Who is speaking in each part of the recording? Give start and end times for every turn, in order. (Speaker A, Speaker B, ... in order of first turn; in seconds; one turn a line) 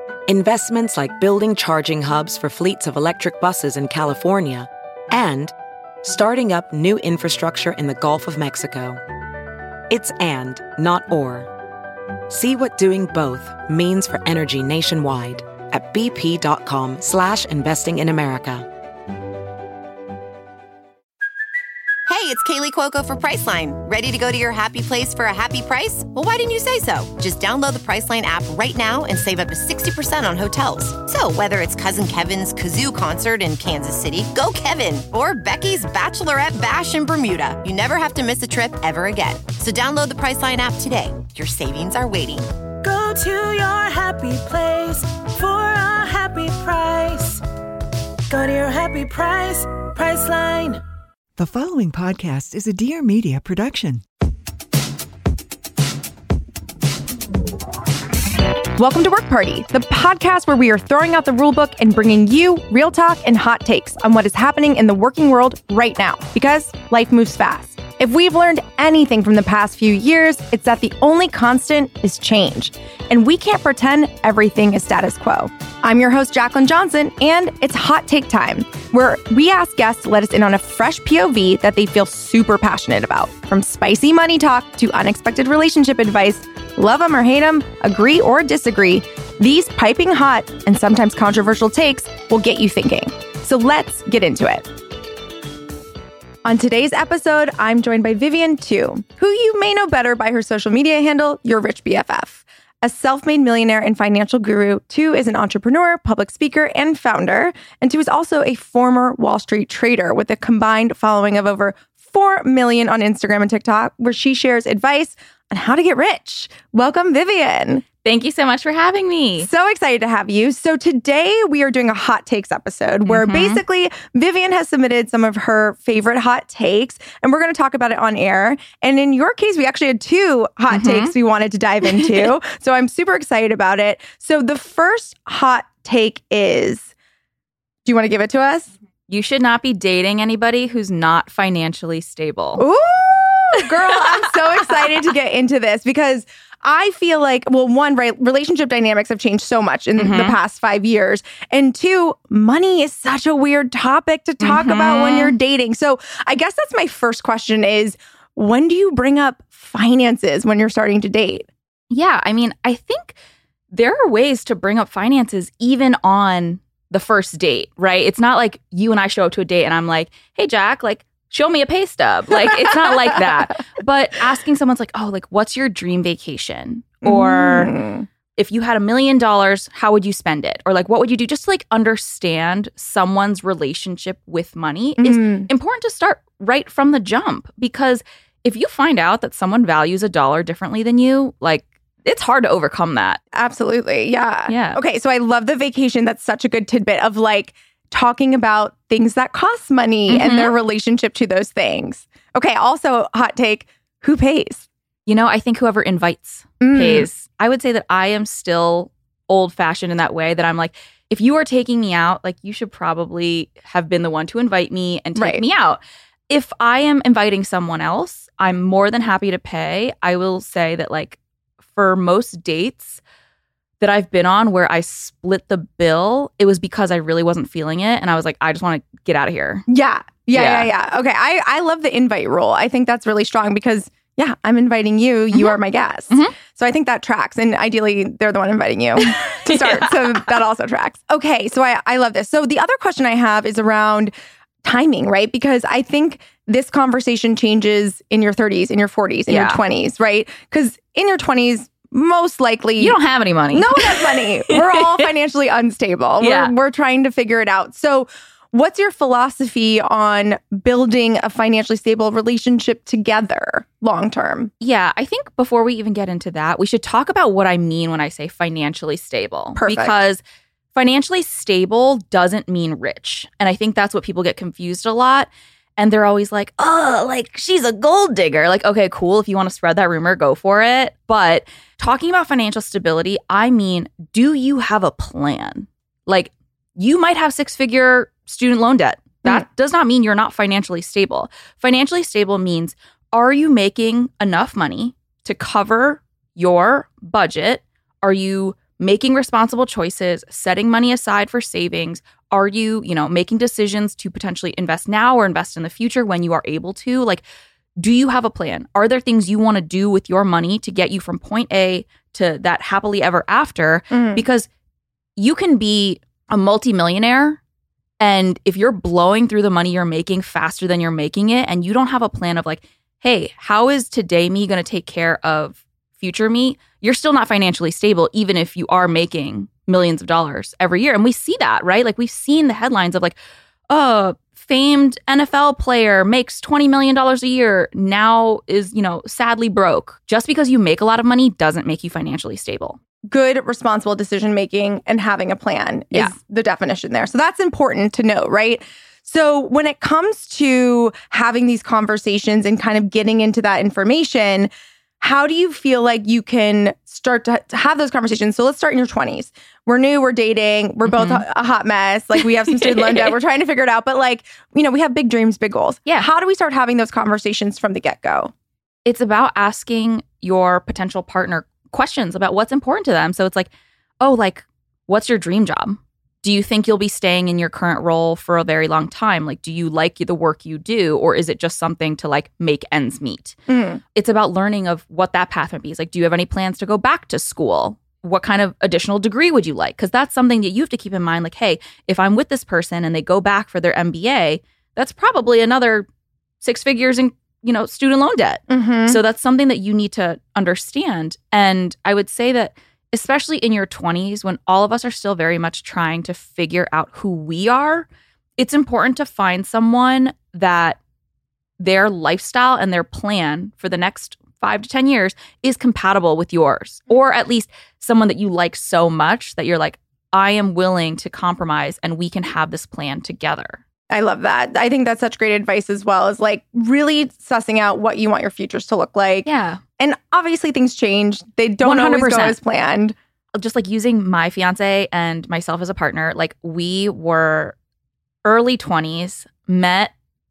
Speaker A: 0.3-9.0
Speaker A: 9.9-11.5
Speaker A: 12.3-18.7
Speaker B: 22.1-42.5
Speaker C: 42.8-47.4
Speaker C: 48.3-50.8
Speaker D: 51.4-54.0
Speaker E: 58.8-94.7
Speaker E: 96.4-117.8
Speaker F: 118.0-119.5
Speaker E: 119.4-136.9
Speaker F: 123.1-123.6
Speaker F: 130.7-131.1
Speaker E: 137.8-138.7
Speaker F: 139.1-142.6
Speaker E: 142.6-161.5
Speaker F: 150.0-150.4
Speaker F: 154.4-155.3
Speaker F: 161.9-163.2
Speaker F: 163.7-177.7
Speaker E: 177.0-178.1
Speaker F: 178.4-193.2
Speaker E: 185.0-185.5
Speaker E: 193.3-204.7
Speaker F: 194.5-194.8
Speaker F: 200.1-200.5
Speaker F: 205.1-221.2
Speaker E: 206.6-207.1
Speaker E: 215.2-215.4
Speaker F: 221.7-223.0
Speaker F: 223.8-229.7
Speaker E: 229.7-244.1
Speaker F: 230.3-230.7
Speaker F: 239.0-240.4
Speaker E: 244.6-253.0
Speaker F: 249.3-249.6
Speaker F: 252.8-255.1
Speaker E: 253.5-264.5
Speaker F: 256.2-256.5
Speaker F: 264.6-270.2
Speaker E: 269.6-270.0
Speaker F: 270.8-307.2
Speaker F: 307.8-314.5
Speaker E: 313.9-314.2
Speaker F: 315.2-317.4
Speaker F: 318.0-333.2
Speaker F: 333.7-342.8
Speaker E: 343.1-354.5
Speaker E: 355.0-368.3
Speaker F: 360.9-361.2
Speaker F: 362.5-363.1
Speaker F: 368.9-383.4
Speaker E: 383.5-383.8
Speaker F: 383.9-395.9
Speaker F: 396.4-410.8
Speaker E: 398.5-399.0
Speaker F: 411.6-423.6
Speaker E: 423.9-429.3
Speaker F: 429.2-429.6
Speaker E: 429.8-433.0
Speaker F: 431.6-432.4
Speaker F: 433.4-437.6
Speaker F: 438.2-439.9